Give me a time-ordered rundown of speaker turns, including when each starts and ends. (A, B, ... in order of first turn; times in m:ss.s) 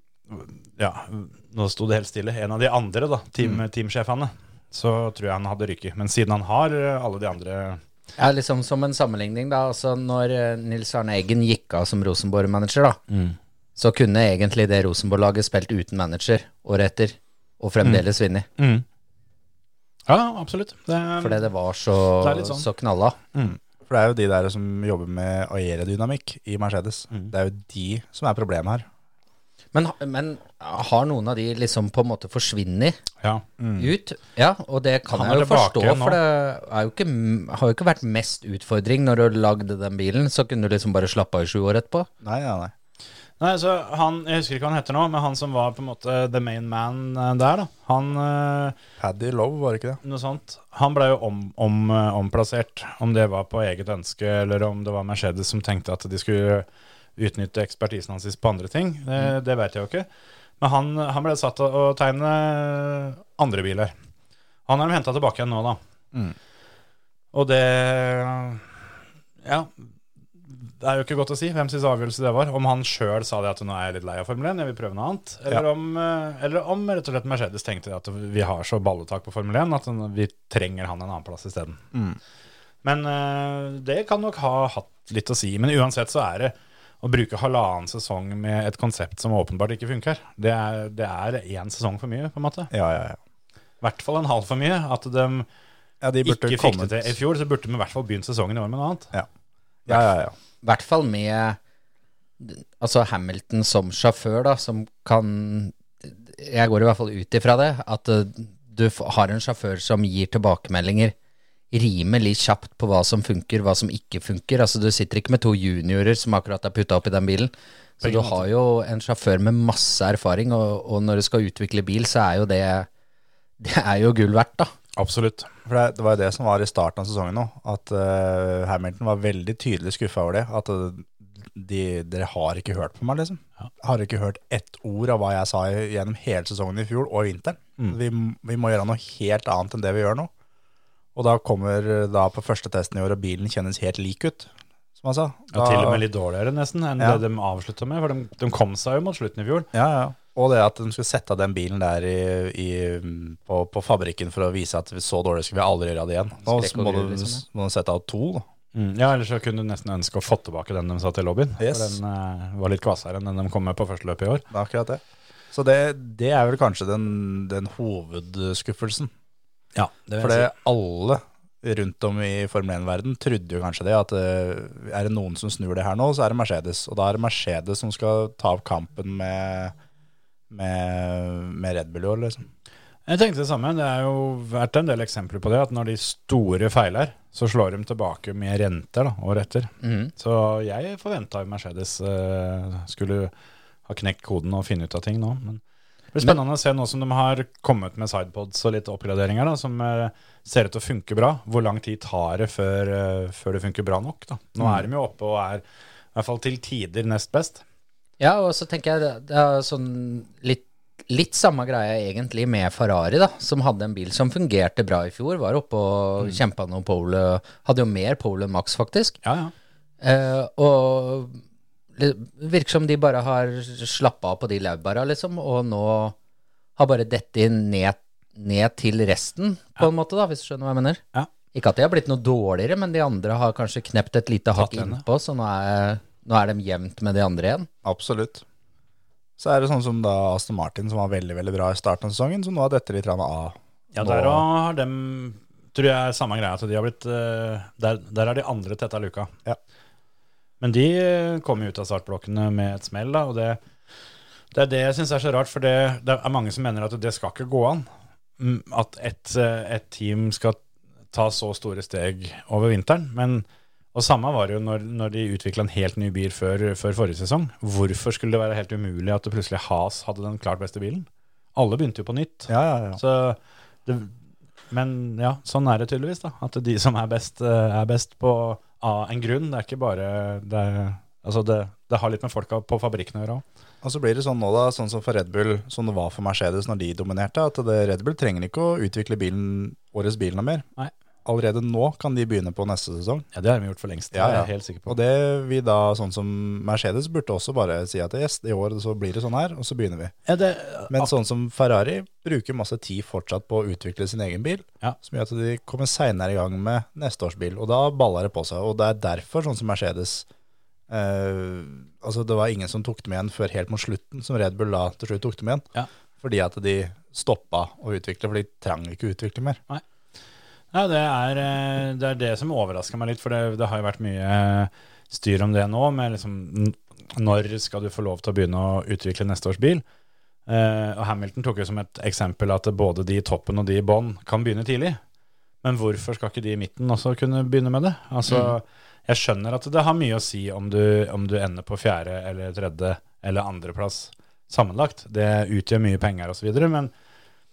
0:00.3-0:07.8 A
0:08.2-0:13.0 B
0:13.1-0:13.4 A
0:13.8-0:18.5 B
0:18.6-0:18.8 A
0:20.1-0:21.4 A
0:21.2-0:23.2 B
0:22.2-0:22.7 A
0:23.8-0:28.8 C
0:29.7-0:33.0 B
0:33.2-0:33.9 A
0:33.8-0:42.1 B
0:35.1-0:36.2 A
0:42.2-0:42.7 C
0:43.4-0:48.8 A
0:49.0-0:50.0 C
0:50.0-0:56.6 A
0:57.2-1:00.1 A
1:00.6-1:03.9 A
1:04.6-1:05.8 A
1:07.3-1:08.6 A
1:09.4-1:09.7 A
1:10.5-1:21.8 A
1:21.9-1:22.2 C
1:22.8-1:32.7 A
1:32.7-1:33.2 C
1:33.8-1:35.5 A
1:36.0-1:37.2 C
1:36.2-1:39.1 A
1:39.9-1:40.3 C
1:40.6-1:41.6 B
1:42.4-1:51.1 B
1:51.7-2:02.9 B
1:58.0-1:58.4 A
2:03.6-2:04.7 B
2:05.0-2:05.5 A
2:05.6-2:20.3 C
2:21.1-2:26.0 C
2:25.5-2:29.7 A
2:29.7-2:38.4 C
2:36.4-2:37.4 B
2:38.7-2:44.4 A
2:41.6-2:42.0 C
2:44.5-2:45.0 C
2:45.5-2:49.1 C
2:49.7-2:50.5 A
2:50.2-2:59.7 C
3:00.5-3:02.4 C
3:03.0-3:13.3 A
3:09.8-3:10.1 B
3:13.8-3:15.6 A
3:16.1-3:25.6 A
3:24.6-3:24.8 C
3:26.1-3:27.6 A
3:28.2-3:39.2 B
3:39.2-3:39.5 A
3:40.0-3:41.4 B
3:42.0-3:46.2 B
3:46.8-3:57.7 B
3:54.5-3:55.0 A
3:57.8-3:58.4 C
3:59.4-4:04.4 C
4:03.9-4:09.3 A
4:10.6-4:13.6 A
4:14.5-4:17.9 A
4:18.4-4:20.6 A
4:21.1-4:34.1 A
4:32.5-4:33.0 C
4:34.7-4:43.4 A
4:43.8-4:50.6 C
4:51.2-4:53.2 C
4:53.3-4:55.0 A
4:54.1-5:00.1 C
5:00.3-5:01.1 A
5:00.9-5:10.2 C
5:10.9-5:15.6 C
5:16.2-5:19.6 C
5:20.7-5:29.8 A
5:30.5-5:35.0 A
5:35.6-5:46.9 A